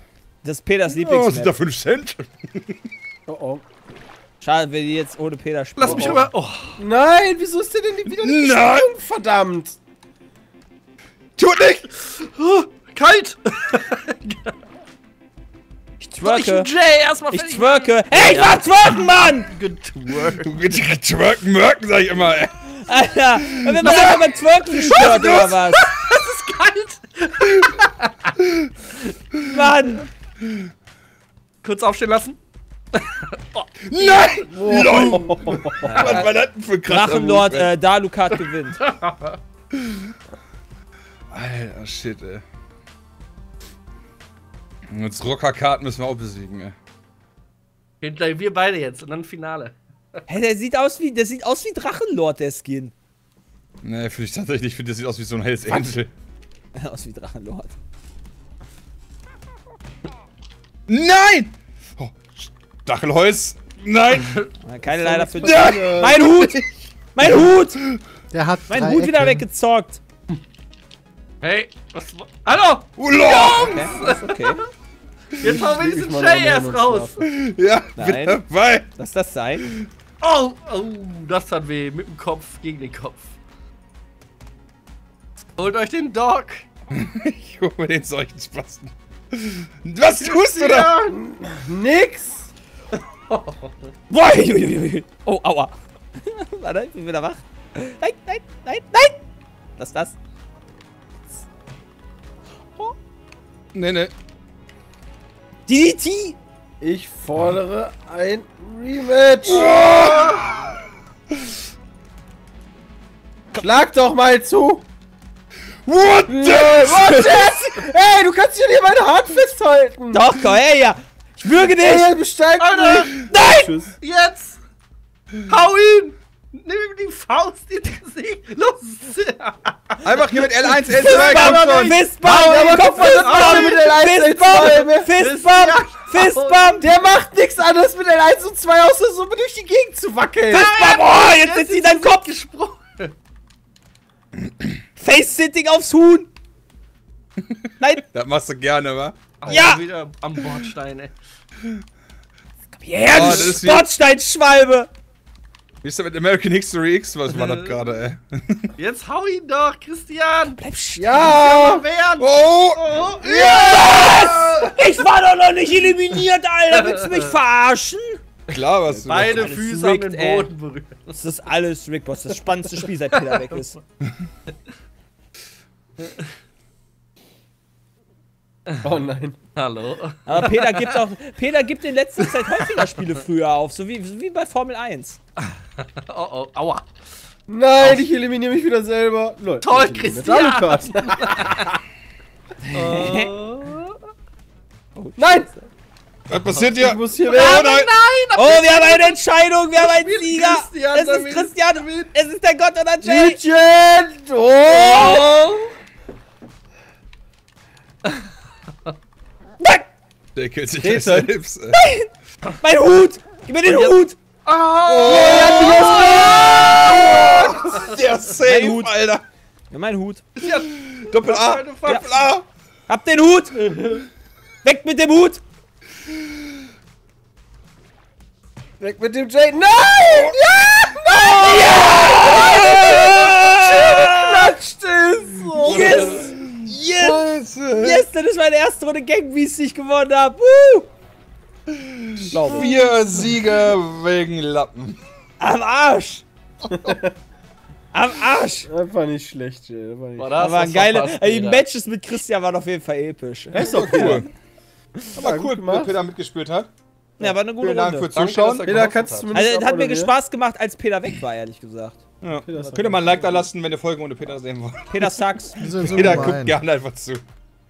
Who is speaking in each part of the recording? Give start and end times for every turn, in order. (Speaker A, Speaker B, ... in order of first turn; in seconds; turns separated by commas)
Speaker A: 0.4-1.5, Speaker B: 0.9-2.8, Speaker C: 3.3-3.6, Speaker A: 4.4-6.2, Speaker D: 5.8-6.8, Speaker C: 5.8-6.3, Speaker C: 6.8-9.8, Speaker B: 8.1-8.9, Speaker B: 11.4-11.9, Speaker D: 12.0-14.5, Speaker A: 16.0-16.7, Speaker D: 16.2-20.5, Speaker A: 17.3-19.5, Speaker B: 20.4-22.6, Speaker A: 22.8-25.9, Speaker B: 23.6-24.2, Speaker D: 23.8-28.3, Speaker B: 25.0-25.4, Speaker A: 29.4-30.1, Speaker D: 31.6-32.4, Speaker D: 32.9-35.2, Speaker B: 33.9-37.7, Speaker C: 34.5-36.2, Speaker A: 35.8-36.3, Speaker D: 36.0-36.3, Speaker A: 36.8-38.8, Speaker D: 38.8-39.4, Speaker B: 39.8-40.1, Speaker B: 41.3-42.4, Speaker B: 44.9-46.7, Speaker D: 48.0-49.7, Speaker A: 50.3-52.9, Speaker B: 53.8-56.1, Speaker A: 56.7-57.7, Speaker B: 60.9-64.3, Speaker D: 64.0-64.5, Speaker A: 64.6-67.8, Speaker C: 64.9-66.2, Speaker B: 65.4-66.6, Speaker B: 67.2-68.0, Speaker E: 68.3-69.5, Speaker A: 68.7-70.0, Speaker D: 71.4-74.6, Speaker B: 73.0-73.9, Speaker A: 73.3-74.6, Speaker D: 75.4-77.2, Speaker C: 75.4-77.2, Speaker B: 77.2-78.8, Speaker A: 78.0-78.4, Speaker A: 79.0-79.7, Speaker D: 80.2-83.3, Speaker D: 85.6-86.6, Speaker B: 86.9-91.0, Speaker D: 90.2-91.2, Speaker C: 91.1-92.5, Speaker D: 93.3-93.7, Speaker A: 94.1-99.2, Speaker A: 99.8-100.2, Speaker B: 103.7-104.1, Speaker A: 105.7-106.4, Speaker C: 106.8-109.8, Speaker B: 109.4-110.7, Speaker C: 113.6-114.8, Speaker B: 115.8-117.3, Speaker C: 116.3-120.2, Speaker A: 116.8-117.8, Speaker A: 120.1-122.2, Speaker C: 121.7-123.9, Speaker D: 122.6-123.1, Speaker A: 123.3-123.7, Speaker D: 124.0-124.6, Speaker D: 125.5-130.2, Speaker B: 130.0-132.0, Speaker C: 130.8-135.1, Speaker A: 130.9-136.9, Speaker D: 132.4-133.8, Speaker D: 135.2-136.9, Speaker C: 136.8-140.7, Speaker D: 140.5-143.1, Speaker A: 140.5-142.3, Speaker A: 145.0-146.3, Speaker B: 147.4-149.3, Speaker A: 147.8-148.0, Speaker D: 149.4-151.1, Speaker A: 149.5-149.8, Speaker A: 152.8-154.9, Speaker B: 153.1-153.9, Speaker B: 155.8-158.7, Speaker D: 157.3-157.8, Speaker D: 158.8-160.6, Speaker A: 160.5-161.4, Speaker C: 161.0-161.8, Speaker D: 161.1-164.7, Speaker B: 162.2-164.7, Speaker A: 163.2-168.2, Speaker D: 166.7-167.3, Speaker B: 168.5-169.5, Speaker D: 169.0-171.2, Speaker A: 169.2-170.5, Speaker A: 171.1-173.8, Speaker D: 176.0-176.3, Speaker C: 178.8-179.4, Speaker D: 179.5-180.9, Speaker A: 180.3-185.2, Speaker D: 182.3-182.8, Speaker D: 185.8-186.8, Speaker C: 187.5-191.6, Speaker D: 187.8-188.1, Speaker D: 189.6-191.8, Speaker A: 192.6-193.3, Speaker D: 192.7-193.9, Speaker A: 194.9-195.7, Speaker C: 195.2-195.5, Speaker B: 196.3-197.9, Speaker C: 196.8-197.7, Speaker D: 197.2-199.2, Speaker A: 198.3-203.4, Speaker D: 199.7-202.1, Speaker C: 203.0-205.6, Speaker D: 204.7-205.6, Speaker A: 209.6-209.8, Speaker B: 210.3-211.8, Speaker C: 210.8-211.3, Speaker A: 211.7-212.1, Speaker A: 212.6-214.2, Speaker D: 213.7-217.0, Speaker B: 214.9-219.2, Speaker C: 215.0-217.4, Speaker A: 218.4-218.9, Speaker A: 219.7-220.2, Speaker D: 220.4-222.1, Speaker B: 220.8-222.4, Speaker A: 222.9-224.0, Speaker A: 224.6-225.4, Speaker C: 228.8-236.3, Speaker B: 230.1-230.3, Speaker A: 231.4-234.0, Speaker B: 231.7-234.4, Speaker B: 235.6-238.0, Speaker A: 235.6-237.2, Speaker A: 237.8-240.9, Speaker B: 241.7-245.0, Speaker A: 242.3-242.9, Speaker A: 245.4-246.2, Speaker C: 246.7-247.1, Speaker A: 247.9-248.7, Speaker C: 248.7-250.3, Speaker D: 250.2-251.6, Speaker A: 250.4-254.2, Speaker C: 253.5-254.3, Speaker B: 253.6-254.3, Speaker C: 255.2-255.9, Speaker B: 255.2-256.7, Speaker A: 257.2-258.1, Speaker B: 257.6-258.9, Speaker D: 258.1-259.3, Speaker C: 258.6-260.1, Speaker A: 259.3-262.0, Speaker B: 262.2-267.2, Speaker C: 262.4-263.3, Speaker A: 264.9-266.3, Speaker E: 265.6-266.6